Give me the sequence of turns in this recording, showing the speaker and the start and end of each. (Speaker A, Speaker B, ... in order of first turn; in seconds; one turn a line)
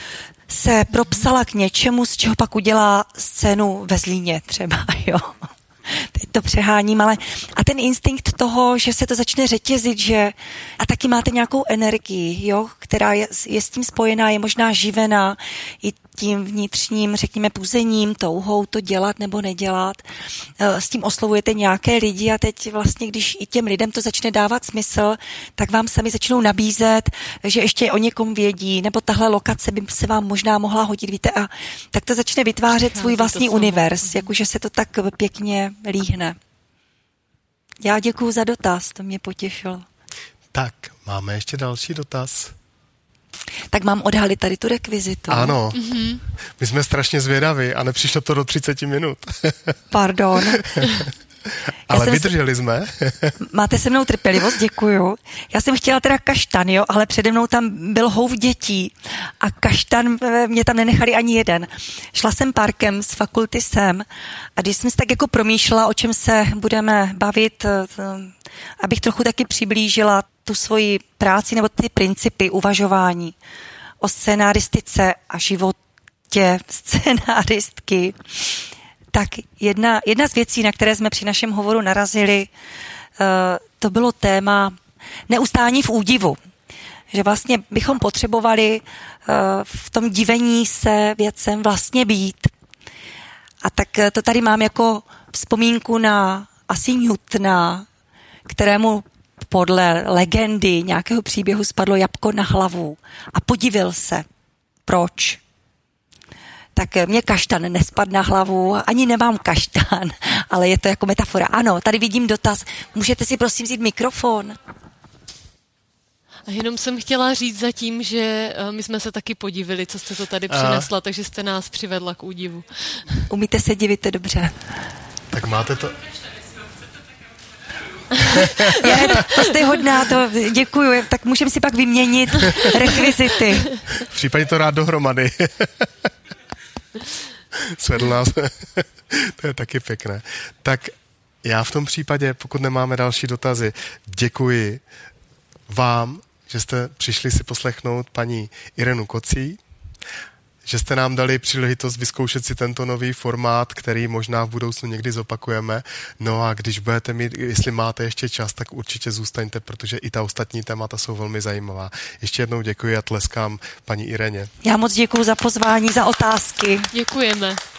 Speaker A: 0.5-20.0
Speaker A: 20.6-36.4
Speaker B: 32.8-34.3
Speaker A: 37.8-39.9
Speaker C: 40.5-42.5
Speaker A: 43.7-45.6
Speaker C: 45.3-45.9
Speaker B: 45.7-46.2
Speaker C: 46.6-49.8
Speaker A: 49.9-50.6
Speaker C: 50.5-53.4
Speaker A: 51.9-52.3
Speaker A: 53.4-64.1
Speaker A: 64.6-73.3
Speaker A: 74.0-75.8
Speaker A: 76.3-78.6
Speaker A: 79.1-82.5
Speaker A: 83.2-84.8
Speaker A: 85.3-86.4
Speaker A: 87.1-92.5
Speaker A: 93.6-97.9
Speaker A: 98.5-104.3
Speaker A: 104.9-105.4
Speaker A: 106.8-114.6
Speaker B: 116.5-123.2
Speaker C: 120.5-120.9
Speaker A: 123.3-124.6
Speaker C: 125.3-126.0
Speaker C: 128.2-129.2
Speaker A: 128.8-133.7
Speaker C: 133.9-135.9
Speaker C: 137.5-144.8
Speaker C: 145.7-149.6
Speaker C: 150.7-164.5
Speaker A: 164.6-166.9
Speaker B: 166.9-167.6